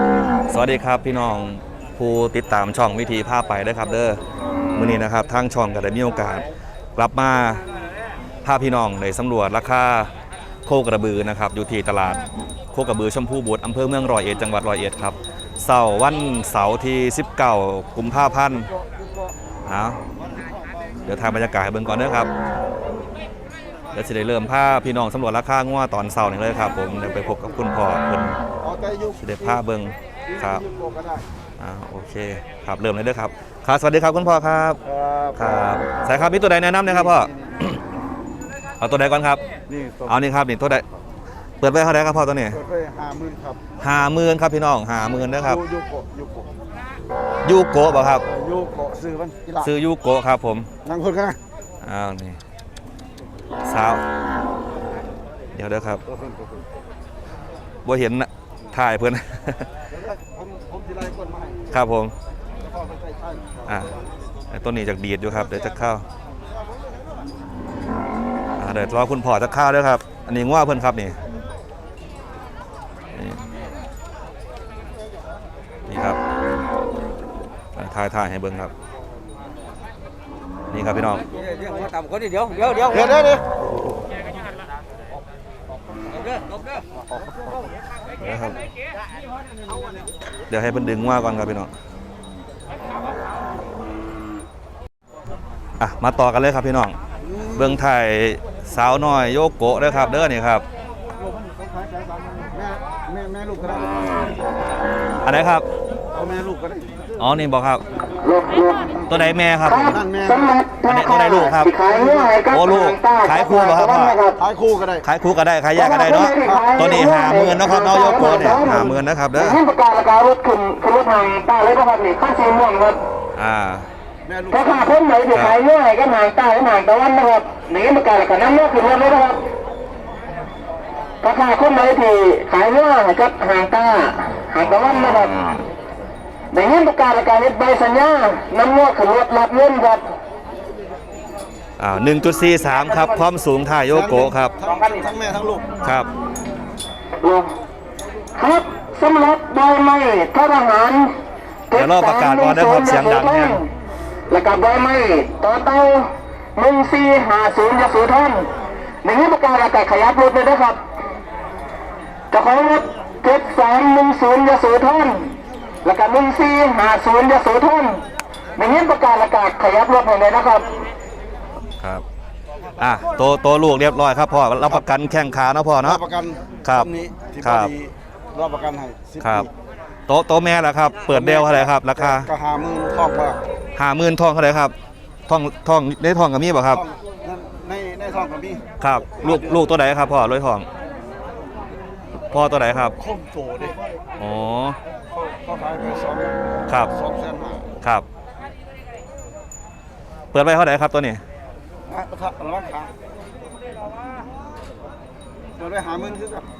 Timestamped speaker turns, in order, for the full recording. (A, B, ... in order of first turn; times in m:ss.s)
0:00.5-0:04.2 A
0:04.7-0:07.6 A
0:08.4-0:10.1 A
0:10.6-0:18.7 A
0:18.5-0:19.3 B
0:19.7-0:20.0 A
0:21.0-0:22.3 A
0:23.9-0:28.4 A
0:28.6-0:29.6 B
0:29.2-0:30.6 A
0:30.3-0:31.2 B
0:31.6-0:34.8 A
0:34.8-0:35.5 B
0:35.3-0:37.8 A
0:36.8-0:37.8 B
0:38.8-0:39.4 A
0:39.7-0:40.2 B
0:40.0-0:40.8 A
0:41.6-0:42.6 A
0:42.5-0:43.6 B
0:43.8-0:45.6 A
0:45.4-0:46.5 B
0:47.4-0:48.2 A
0:48.3-0:49.7 B
0:49.6-0:50.7 A
0:50.8-0:51.4 B
0:51.8-0:52.4 A
0:53.6-0:54.0 A
0:55.5-0:56.0 A
0:56.0-0:56.6 B
0:57.8-0:59.7 A
0:59.9-1:01.8 B
1:01.7-1:02.1 A
1:02.6-1:04.0 B
1:03.7-1:03.9 A
1:04.5-1:06.0 A
1:08.6-1:11.2 A
1:13.1-1:13.4 A
1:15.9-1:16.2 A
1:17.8-1:18.7 A
1:20.7-1:21.2 A
1:21.3-1:21.9 B
1:21.6-1:23.3 C
1:22.9-1:23.4 B
1:26.2-1:26.6 C
1:28.2-1:28.6 A
1:30.5-1:31.7 A
1:35.8-1:37.0 A
1:37.2-1:37.8 B
1:37.6-1:40.6 A
1:41.2-1:44.5 B
1:45.2-1:45.7 A
1:46.1-1:47.1 B
1:47.2-1:47.8 A
1:48.2-1:49.0 D
1:49.1-1:50.0 A
1:49.6-1:54.4 D
1:49.8-1:50.6 B
1:50.9-1:51.7 A
1:51.8-1:52.4 B
1:52.5-1:54.2 A
1:54.4-1:55.0 B
1:55.0-1:59.6 A
1:55.7-2:03.0 D
1:56.4-1:57.1 B
2:03.4-2:03.9 A
2:04.3-2:05.0 B
2:04.5-2:09.4 D
2:05.3-2:05.6 A
2:11.2-2:15.5 D
2:16.5-2:20.0 D
2:21.8-2:24.6 A
2:22.7-2:23.1 C
2:23.9-2:25.8 B
2:25.8-2:26.1 A
2:27.2-2:27.5 D
2:28.4-2:31.1 D
2:31.7-2:33.7 D
2:31.7-2:33.6 A
2:34.3-2:38.5 D
2:39.0-2:40.8 D
2:42.3-2:45.3 D
2:45.8-2:48.0 D
2:48.6-2:50.7 D
2:52.8-2:56.0 A
2:55.8-2:59.5 B
2:56.6-2:57.7 A
2:59.2-2:59.5 A
3:00.1-3:02.3 A
3:01.1-3:03.4 B
3:03.8-3:04.7 A
3:05.3-3:06.8 A
3:06.7-3:08.7 B
3:08.8-3:10.7 A
3:09.2-3:09.7 B
3:12.3-3:13.0 A
3:13.0-3:13.8 B
3:14.2-3:14.8 A
3:15.1-3:17.7 B
3:16.7-3:16.9 A
3:20.3-3:21.2 A
3:21.9-3:22.9 B
3:25.6-3:26.5 B